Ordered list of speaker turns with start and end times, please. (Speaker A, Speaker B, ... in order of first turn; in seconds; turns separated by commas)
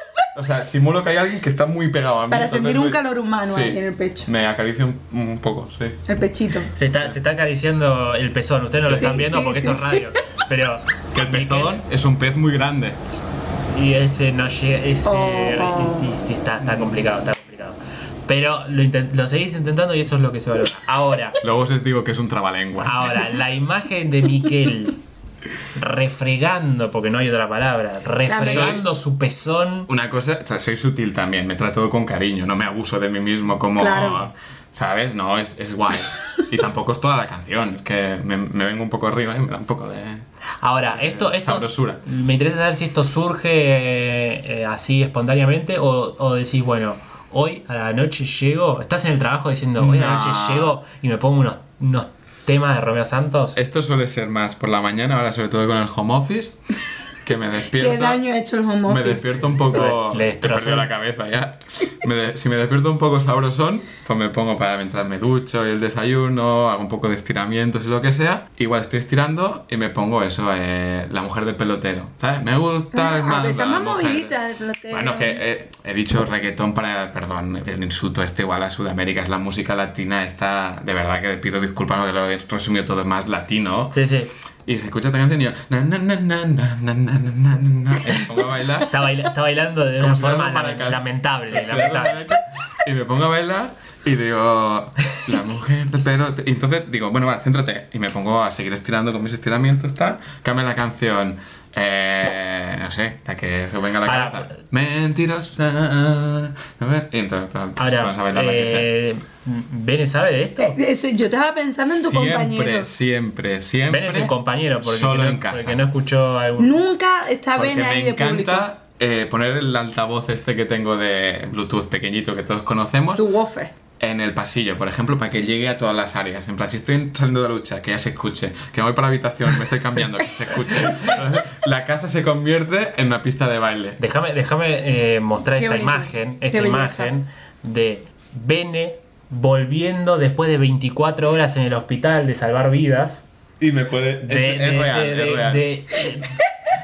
Speaker A: 0.3-6.0, Speaker B: 2.3-4.3, Speaker B: 6.1-6.7, Speaker C: 6.7-11.8, Speaker B: 8.9-10.0, Speaker A: 11.1-13.0, Speaker C: 13.7-21.4, Speaker B: 15.0-16.1, Speaker A: 16.6-17.1, Speaker A: 21.4-23.2, Speaker C: 22.8-25.0, Speaker C: 25.7-29.9, Speaker B: 28.3-28.8, Speaker A: 28.4-28.8, Speaker A: 29.9-40.2, Speaker B: 33.8-34.2, Speaker C: 40.6-53.6, Speaker A: 40.9-42.0, Speaker A: 49.8-50.8, Speaker A: 53.5-56.6, Speaker A: 57.2-58.2, Speaker B: 57.7-59.5, Speaker A: 58.9-74.3, Speaker C: 59.7-60.9, Speaker B: 72.9-75.4, Speaker A: 74.9-84.0, Speaker C: 83.9-84.3, Speaker A: 84.6-88.9, Speaker C: 88.9-92.2, Speaker A: 90.0-108.9, Speaker C: 104.0-104.6, Speaker C: 107.8-110.8, Speaker B: 110.6-112.9, Speaker A: 111.8-115.8, Speaker C: 113.9-116.8, Speaker B: 116.6-118.7, Speaker A: 117.5-123.2, Speaker B: 123.1-123.7, Speaker A: 124.0-134.0, Speaker C: 134.0-143.2, Speaker B: 135.5-137.1, Speaker A: 143.6-145.7, Speaker C: 144.2-146.4